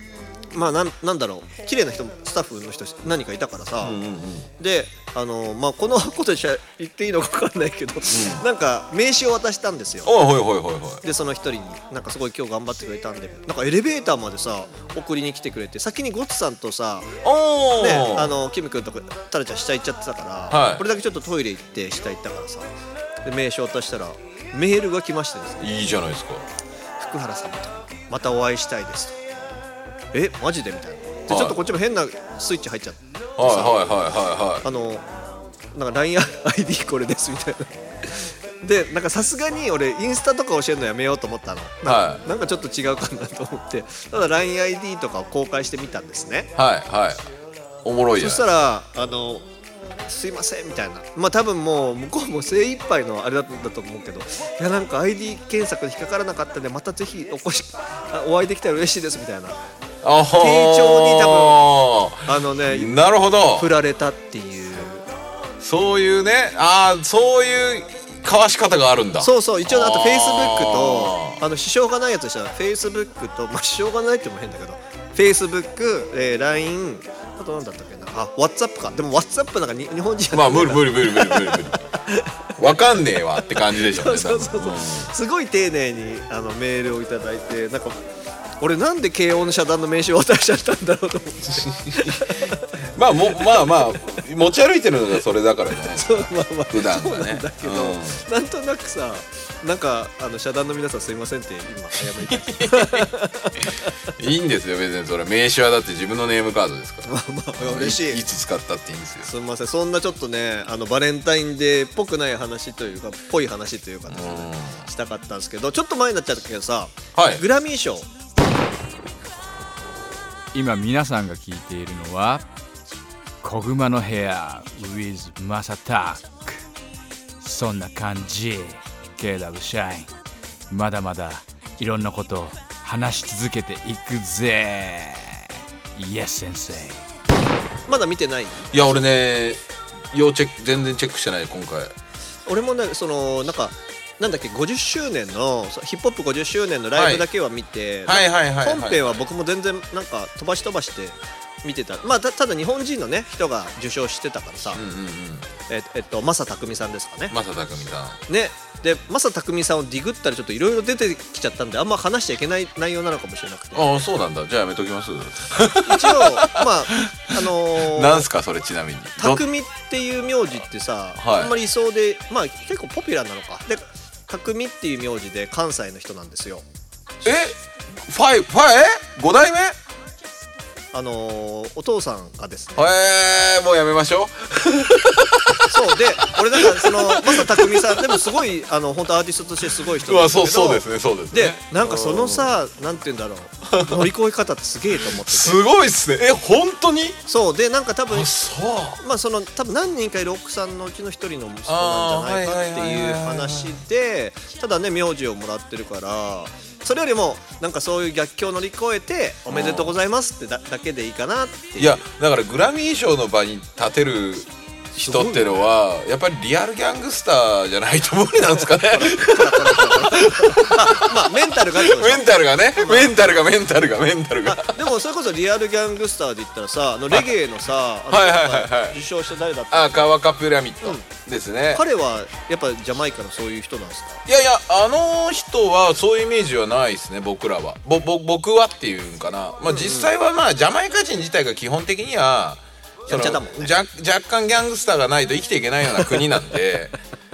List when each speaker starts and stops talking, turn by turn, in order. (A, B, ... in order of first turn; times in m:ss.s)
0:00.5-0:04.0 A
0:03.8-0:04.5 B
0:04.6-0:10.1 A
0:08.1-0:08.4 B
0:10.0-0:11.0 B
0:11.0-0:17.1 A
0:17.2-0:18.3 B
0:17.7-0:25.7 A
0:20.5-0:20.8 B
0:25.6-0:26.5 B
0:27.0-0:29.2 A
0:30.1-0:33.9 A
0:31.3-0:31.6 B
0:33.4-0:34.7 B
0:34.6-0:35.1 A
0:35.7-0:46.5 A
0:41.8-0:42.2 B
0:46.6-0:47.3 B
0:47.8-0:48.5 B
0:48.2-0:49.5 A
0:50.1-0:59.6 A
1:00.0-1:03.7 B
1:00.4-1:01.7 A
1:02.3-1:03.0 A
1:03.5-1:05.1 A
1:05.6-1:11.4 B
1:09.2-1:22.4 A
1:20.3-1:21.9 B
1:22.6-1:25.1 B
1:23.6-1:28.0 A
1:28.6-1:32.7 A
1:31.6-1:32.2 B
1:32.9-1:38.2 B
1:33.4-1:34.0 A
1:35.8-1:43.9 A
1:42.2-1:43.1 B
1:44.2-1:49.3 B
1:47.0-1:48.2 A
1:49.2-1:58.1 A
1:54.1-1:54.9 B
1:57.2-1:57.4 B
2:00.5-2:02.5 C
2:03.4-2:06.6 C
2:07.4-2:10.1 C
2:10.7-2:17.0 C
2:17.9-2:19.0 A
2:18.7-2:19.6 B
2:20.1-2:21.9 B
2:22.5-2:34.8 A
2:27.0-2:27.3 B
2:28.0-2:29.2 B
2:34.8-2:35.5 B
2:35.7-2:37.4 A
2:37.3-2:38.2 B
2:38.3-2:43.9 A
2:43.7-2:49.4 B
2:45.8-2:48.3 A
2:49.2-2:56.6 A
2:51.2-2:51.6 B
2:57.2-2:59.8 B
3:00.9-3:02.9 A
3:02.8-3:08.2 B
3:05.7-3:15.6 A
3:10.0-3:12.6 B
3:13.7-3:14.1 B
3:15.0-3:17.2 B
3:17.3-3:18.3 A
3:18.1-3:19.0 B
3:19.0-3:32.1 A
3:21.7-3:23.8 B
3:29.5-3:30.0 B
3:31.8-3:44.8 B
3:35.0-3:35.6 A
3:38.5-3:43.2 A
3:44.4-3:49.9 A
3:48.1-3:49.0 B
3:49.7-3:51.8 B
3:50.8-3:51.1 A
3:51.7-3:54.2 A
3:54.3-4:07.0 B
3:59.7-4:00.1 A
4:03.1-4:03.7 A